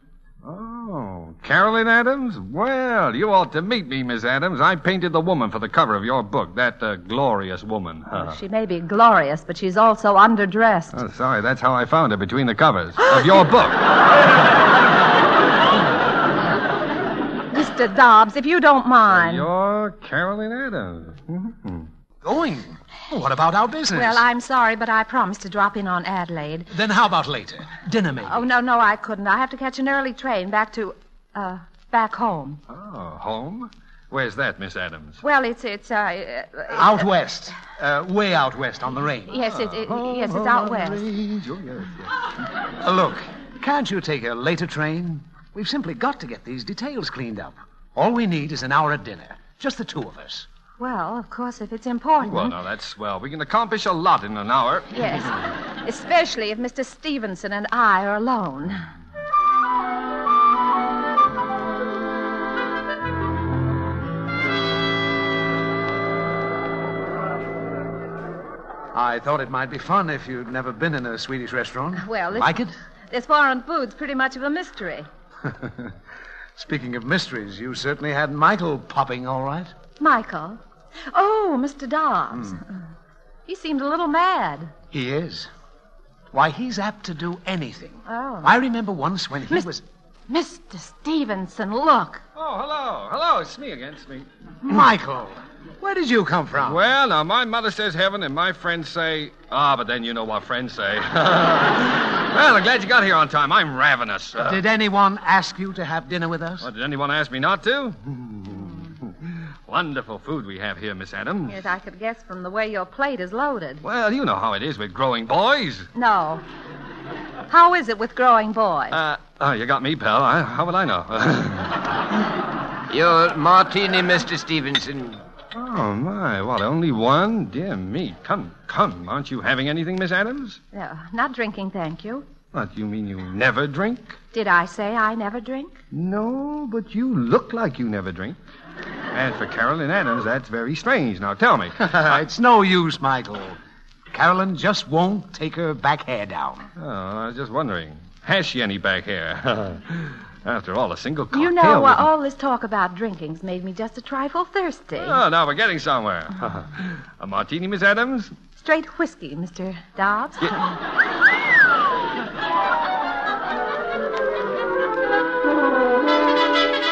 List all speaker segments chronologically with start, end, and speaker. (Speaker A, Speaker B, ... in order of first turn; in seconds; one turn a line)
Speaker A: 0.4-8.3
Speaker B: 8.2-11.0
Speaker A: 10.9-13.8
Speaker B: 17.5-19.4
Speaker A: 19.1-21.9
Speaker C: 22.2-24.2
Speaker B: 23.9-26.7
Speaker C: 26.7-28.5
Speaker B: 28.2-32.6
Speaker A: 32.7-35.2
Speaker B: 35.2-37.1
Speaker C: 36.7-39.3
Speaker B: 39.3-41.0
Speaker A: 39.4-42.1
Speaker C: 42.8-50.5
Speaker B: 50.8-52.6
Speaker A: 52.2-55.0
Speaker B: 54.9-58.8
Speaker C: 68.9-72.7
Speaker B: 72.0-75.1
Speaker C: 76.6-79.7
Speaker B: 80.0-80.6
Speaker B: 81.1-82.7
Speaker B: 83.5-84.7
Speaker C: 84.9-85.5
Speaker C: 86.3-89.8
Speaker B: 88.1-88.5
Speaker B: 90.3-92.2
Speaker A: 92.3-94.3
Speaker C: 94.6-96.8
Speaker A: 96.6-104.6
Speaker C: 104.4-106.7
Speaker A: 106.6-111.6
Speaker B: 111.5-113.8
Speaker A: 113.8-115.9
Speaker B: 115.9-116.4
Speaker B: 117.5-119.0
Speaker A: 118.9-121.7
Speaker D: 122.9-125.2
Speaker A: 125.5-130.6
Speaker B: 130.7-132.2
Speaker A: 132.5-134.2
Speaker B: 134.3-135.7
Speaker A: 135.9-138.4
Speaker A: 139.1-142.2
Speaker C: 141.8-143.6
Speaker C: 144.1-146.7
Speaker A: 146.8-152.1
Speaker B: 151.3-155.2
Speaker A: 155.0-158.3
Speaker B: 158.6-160.7